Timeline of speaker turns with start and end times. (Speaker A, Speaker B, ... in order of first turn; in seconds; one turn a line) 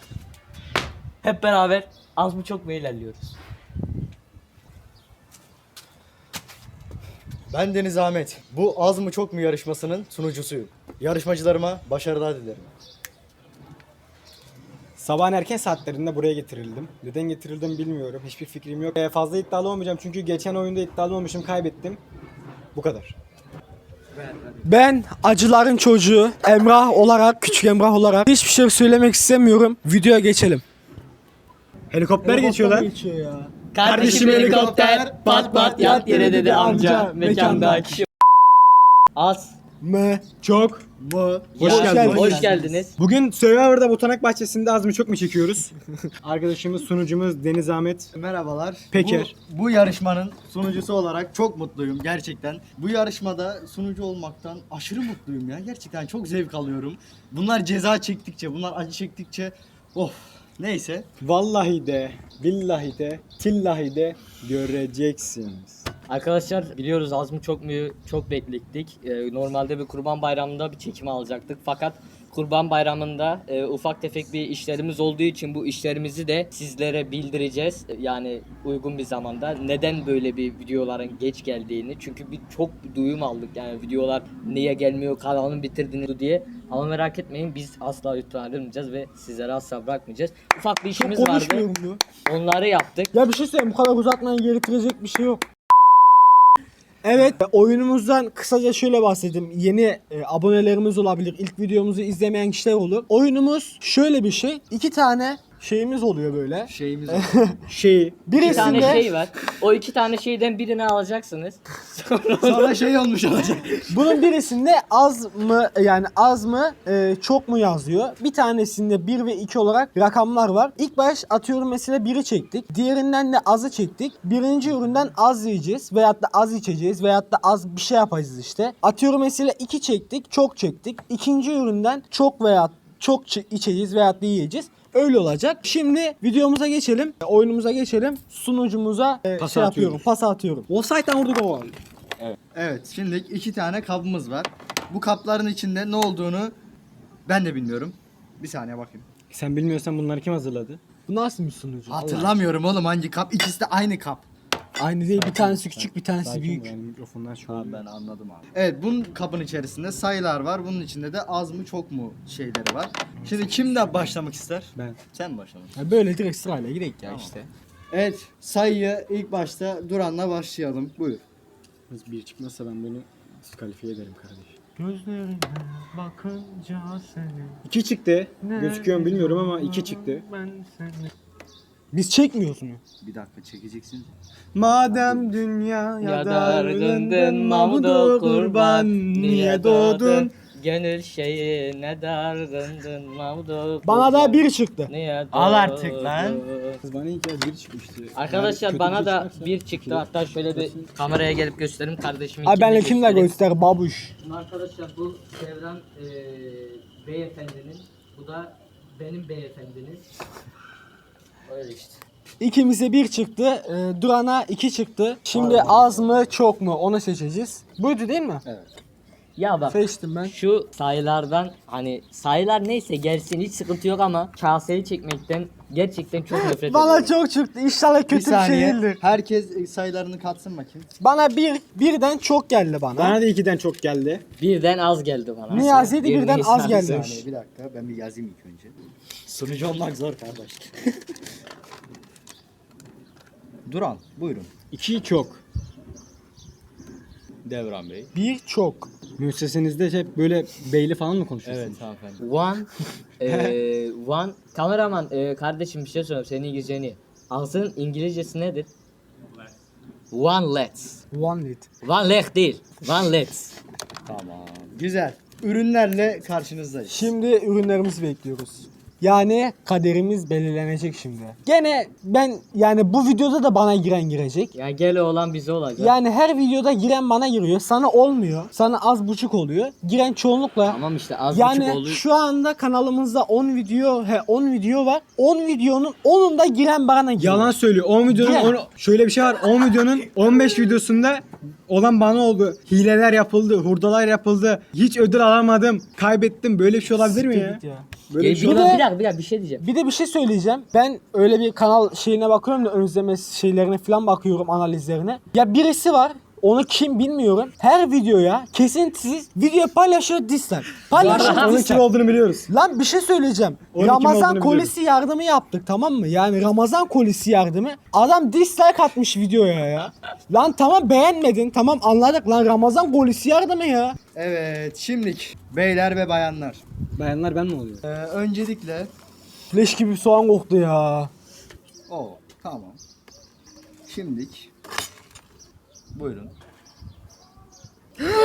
Speaker A: 1.2-3.3
Speaker B: 7.5-12.7
Speaker C: 15.0-22.0
Speaker C: 22.8-23.2
Speaker B: 24.2-24.6
Speaker D: 24.6-30.6
Speaker C: 31.9-32.9
Speaker D: 32.2-33.5
Speaker A: 33.7-38.1
Speaker C: 33.8-34.7
Speaker B: 33.9-37.8
Speaker D: 35.9-38.0
Speaker A: 39.1-39.6
Speaker D: 39.8-40.3
Speaker C: 40.3-40.8
Speaker B: 41.0-42.8
Speaker A: 41.6-42.9
Speaker C: 41.6-45.7
Speaker D: 41.6-42.5
Speaker C: 46.2-48.1
Speaker B: 48.1-61.1
Speaker C: 48.9-49.3
Speaker C: 61.2-65.9
Speaker A: 66.1-91.7
Speaker D: 90.9-92.0
Speaker A: 92.2-93.1
Speaker D: 93.1-95.4
Speaker D: 97.0-107.6
Speaker B: 106.7-107.3
Speaker C: 107.7-108.3
Speaker D: 108.3-109.0
Speaker A: 108.4-112.8
Speaker B: 108.4-109.2
Speaker B: 112.4-114.0
Speaker D: 113.9-140.7
Speaker C: 139.4-140.0
Speaker C: 140.7-141.8
Speaker B: 142.2-146.6
Speaker B: 147.3-149.1
Speaker C: 149.3-150.8
Speaker D: 151.1-152.3
Speaker B: 151.9-154.2
Speaker D: 154.8-156.7
Speaker C: 155.2-157.8
Speaker B: 157.5-165.7
Speaker D: 165.8-167.5
Speaker B: 167.1-167.4
Speaker B: 167.9-171.2
Speaker C: 171.9-174.5
Speaker D: 174.8-177.6
Speaker C: 177.6-180.2
Speaker D: 178.4-181.1
Speaker D: 181.9-182.8
Speaker B: 183.0-184.1
Speaker C: 184.5-190.3
Speaker B: 184.8-185.3
Speaker A: 186.0-196.8
Speaker D: 193.8-194.9
Speaker B: 195.3-196.4
Speaker C: 196.8-200.9
Speaker A: 198.2-203.3
Speaker D: 202.4-204.1
Speaker A: 204.2-210.0
Speaker A: 211.5-212.0
Speaker D: 212.4-218.4
Speaker A: 215.3-215.8
Speaker B: 218.4-218.7
Speaker A: 219.4-227.1
Speaker D: 219.7-220.3
Speaker D: 226.3-229.0
Speaker B: 228.1-230.9
Speaker D: 231.0-233.2
Speaker C: 233.0-234.2
Speaker A: 234.4-237.1
Speaker D: 235.5-237.2
Speaker B: 236.7-238.8
Speaker B: 239.3-240.8
Speaker B: 243.7-244.5
Speaker C: 244.7-245.4
Speaker B: 247.4-248.1
Speaker D: 248.2-248.9
Speaker C: 249.2-251.8
Speaker B: 251.4-252.2
Speaker A: 252.2-252.7
Speaker A: 253.2-258.7
Speaker A: 260.1-261.0
Speaker D: 261.1-261.7
Speaker A: 261.8-263.6
Speaker B: 264.1-267.1
Speaker D: 266.9-274.5
Speaker A: 274.5-275.9
Speaker D: 275.8-280.8
Speaker A: 280.7-282.0
Speaker D: 281.3-287.5
Speaker C: 287.4-298.7
Speaker D: 288.1-288.6
Speaker D: 297.0-297.9
Speaker A: 298.2-299.7
Speaker D: 298.4-298.9
Speaker D: 299.6-311.9
Speaker A: 310.9-311.6
Speaker C: 311.0-312.5
Speaker D: 312.5-324.0
Speaker C: 313.7-314.7
Speaker B: 324.1-326.6
Speaker C: 327.0-327.8
Speaker B: 327.8-328.9
Speaker D: 329.5-331.1
Speaker B: 331.9-332.8
Speaker B: 333.9-334.5
Speaker B: 335.9-336.3